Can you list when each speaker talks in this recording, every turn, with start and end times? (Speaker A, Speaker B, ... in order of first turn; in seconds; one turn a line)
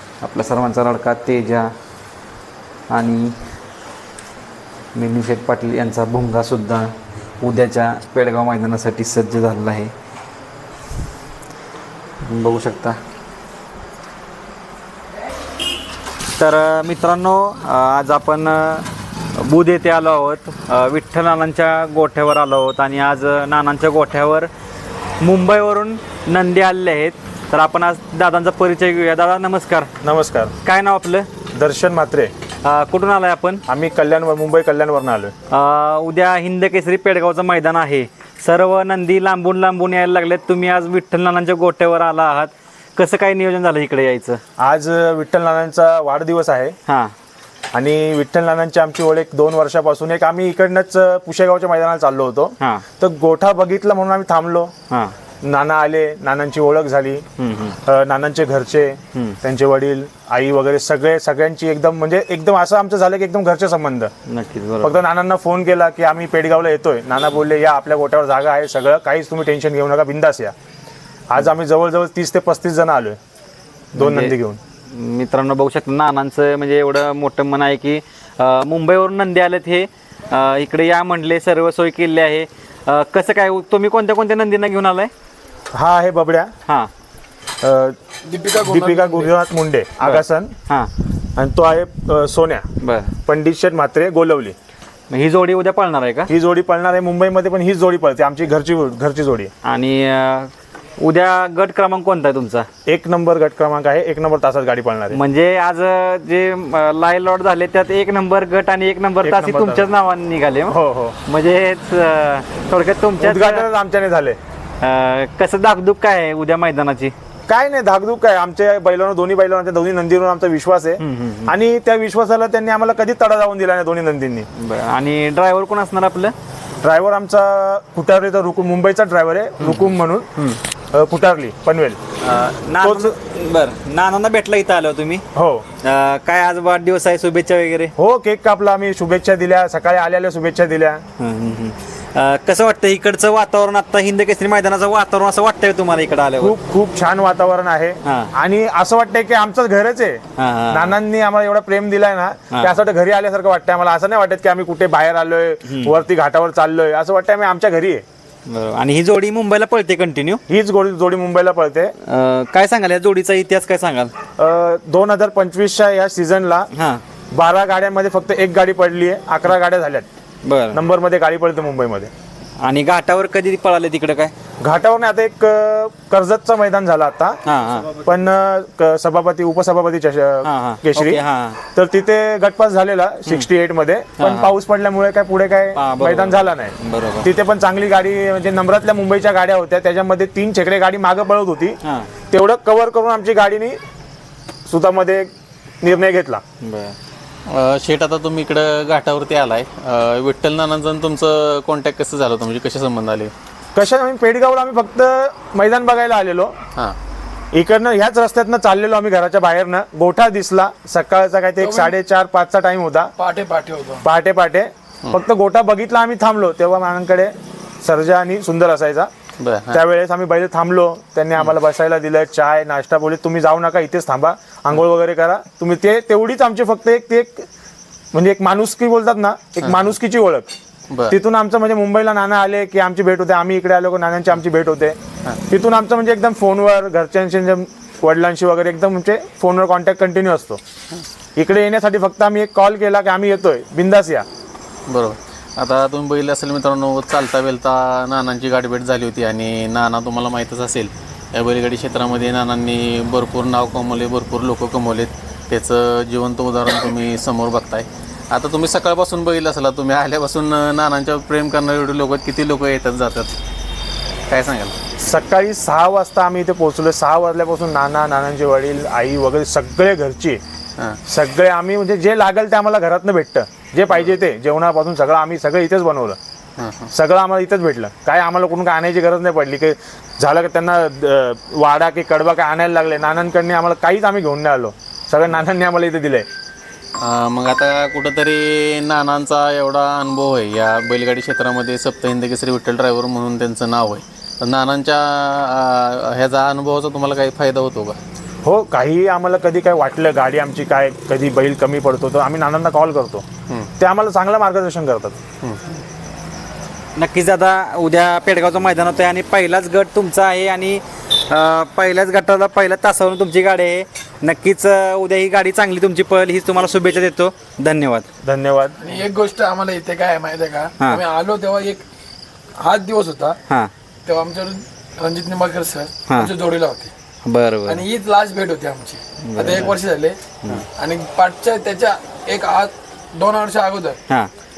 Speaker A: 0.2-1.7
Speaker A: 2.9-3.3
Speaker A: 4.9-9.9
Speaker A: 12.2-13.0
Speaker A: 16.4-24.5
Speaker A: 25.2-29.9
Speaker B: 30.0-30.5
Speaker A: 30.6-31.3
Speaker B: 31.5-32.3
Speaker A: 32.6-33.6
Speaker B: 33.7-35.3
Speaker A: 35.5-44.4
Speaker B: 44.6-46.7
Speaker A: 46.9-47.1
Speaker B: 47.7-54.7
Speaker B: 55.4-57.2
Speaker A: 57.4-57.8
Speaker B: 57.8-64.1
Speaker A: 64.3-65.0
Speaker B: 64.8-70.5
Speaker B: 71.3-73.2
Speaker A: 73.9-74.3
Speaker B: 73.9-74.6
Speaker A: 74.9-85.1
Speaker B: 85.7-86.5
Speaker B: 87.6-88.0
Speaker C: 88.2-89.3
Speaker B: 88.6-90.5
Speaker A: 90.0-90.9
Speaker B: 91.4-92.6
Speaker A: 92.8-93.1
Speaker B: 93.2-94.5
Speaker A: 95.1-96.3
Speaker B: 96.3-99.5
Speaker A: 99.6-102.7
Speaker B: 102.8-105.2
Speaker A: 105.1-113.6
Speaker B: 109.2-109.9
Speaker B: 110.7-111.2
Speaker B: 113.2-114.4
Speaker A: 114.8-117.1
Speaker B: 117.5-124.5
Speaker A: 121.0-121.5
Speaker A: 124.5-126.3
Speaker B: 126.8-130.3
Speaker B: 130.9-132.0
Speaker A: 132.2-135.2
Speaker B: 132.8-133.1
Speaker B: 135.3-135.6
Speaker A: 135.8-137.9
Speaker B: 138.0-141.0
Speaker A: 141.2-146.5
Speaker B: 146.4-158.0
Speaker A: 148.0-148.3
Speaker A: 150.4-150.9
Speaker A: 158.5-160.4
Speaker B: 160.5-161.9
Speaker A: 162.0-164.1
Speaker B: 164.4-166.7
Speaker A: 166.7-167.0
Speaker B: 167.3-170.1
Speaker A: 170.4-170.8
Speaker B: 170.7-172.1
Speaker A: 172.6-174.3
Speaker B: 174.6-177.4
Speaker A: 177.4-177.9
Speaker B: 178.0-181.2
Speaker A: 180.4-181.6
Speaker B: 181.7-191.8
Speaker A: 184.2-184.5
Speaker A: 185.8-187.3
Speaker A: 191.8-192.1
Speaker B: 192.3-193.8
Speaker B: 194.7-195.3
Speaker B: 195.8-196.4
Speaker A: 196.6-196.9
Speaker D: 197.5-203.3
Speaker B: 203.7-206.6
Speaker B: 207.5-213.1
Speaker C: 211.6-211.9
Speaker C: 213.2-214.0
Speaker B: 214.0-219.1
Speaker D: 219.4-219.8
Speaker B: 219.7-227.4
Speaker B: 228.1-230.5
Speaker D: 230.9-231.2
Speaker B: 231.1-240.6
Speaker B: 241.4-244.2
Speaker D: 244.9-263.4
Speaker D: 264.3-264.8
Speaker B: 265.0-270.4
Speaker B: 271.1-276.2
Speaker D: 276.6-276.9
Speaker B: 276.9-286.2
Speaker D: 287.0-298.0
Speaker B: 298.4-303.2
Speaker B: 303.8-305.2
Speaker D: 305.4-305.8
Speaker A: 306.9-318.1
Speaker B: 318.2-318.8
Speaker C: 318.8-321.8
Speaker C: 322.6-323.4
Speaker C: 324.1-326.9
Speaker A: 326.1-326.3
Speaker A: 327.2-327.8
Speaker C: 327.6-334.0
Speaker A: 329.2-329.8